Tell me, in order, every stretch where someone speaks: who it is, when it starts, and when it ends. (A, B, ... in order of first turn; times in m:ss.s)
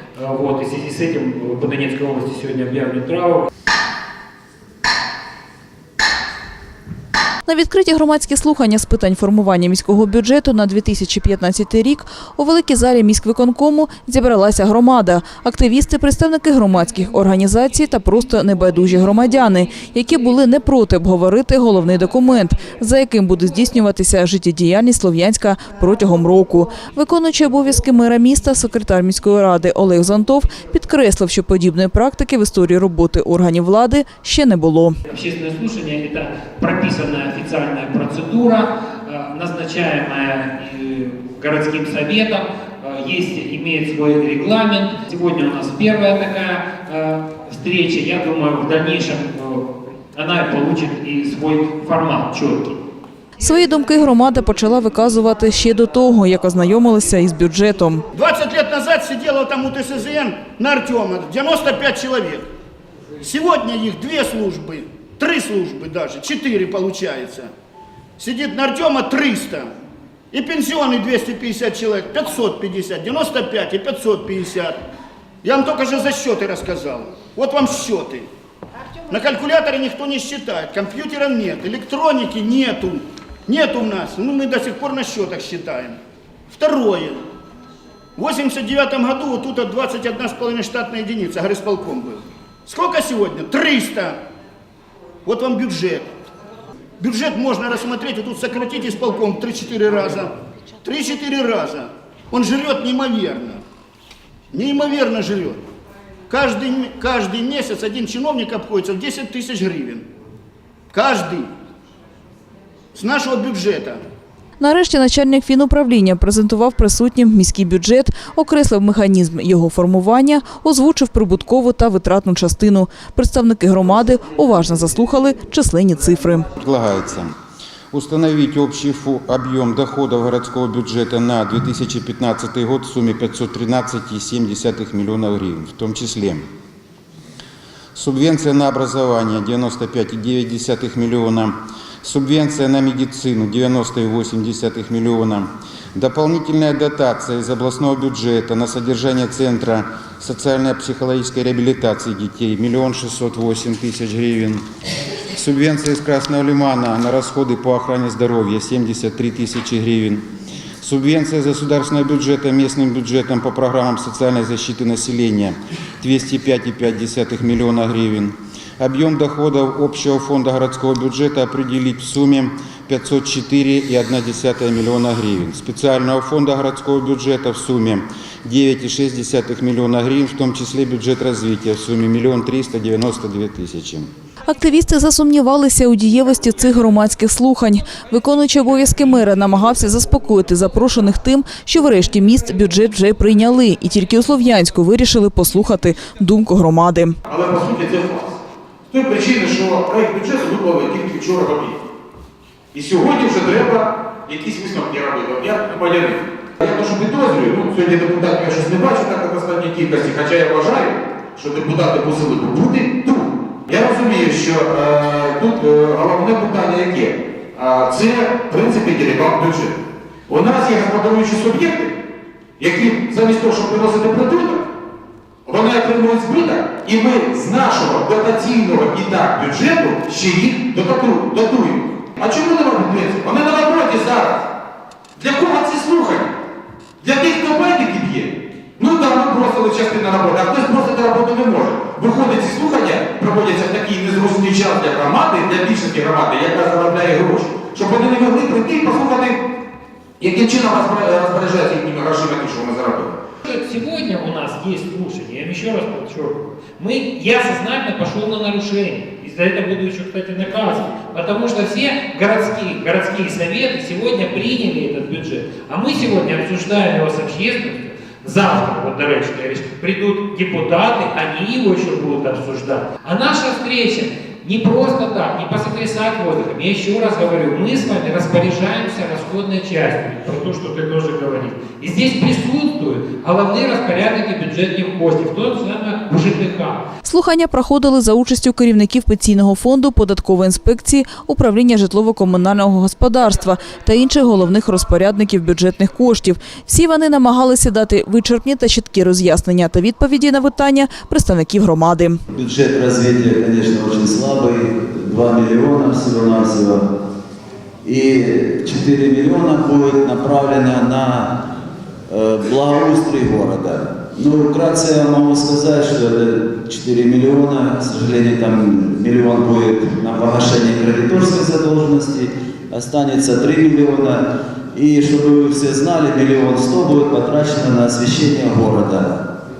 0:00.2-0:03.4 A
0:07.4-0:35.0 B
0:35.1-0:52.7 A
0:53.4-0:58.0 B
0:58.1-1:02.4 C
1:03.2-1:07.5 C
1:08.2-1:09.7 C
1:10.3-1:14.8 C
1:15.4-1:18.3 C
1:19.1-1:26.0 C
1:26.5-1:27.2 C
1:28.2-1:34.2 C
1:35.2-1:36.0 C
1:37.0-1:40.3 C
1:40.8-1:43.6 C
1:44.5-1:45.6 C
1:46.3-1:50.0 C
1:50.9-1:51.5 C
1:52.9-1:54.0 C
1:54.6-2:06.5 B
2:06.6-2:07.3 D
2:07.9-2:16.4 D
2:17.9-2:34.6 D
2:35.3-2:40.2 D
2:40.8-3:04.1 D
3:04.5-3:17.2 B
3:17.3-3:18.3 E
3:18.9-3:21.7 E
3:22.7-3:39.7 E
3:40.3-3:41.9 E
3:42.6-3:44.6 E
3:45.4-3:54.4 E
3:55.2-3:56.3 E
3:57.0-4:09.4 E
4:10.2-4:13.1 E
4:13.4-4:46.8 A
4:47.0-5:02.2 B
5:02.3-5:06.9 F
5:07.8-5:11.4 F
5:12.1-5:29.2 F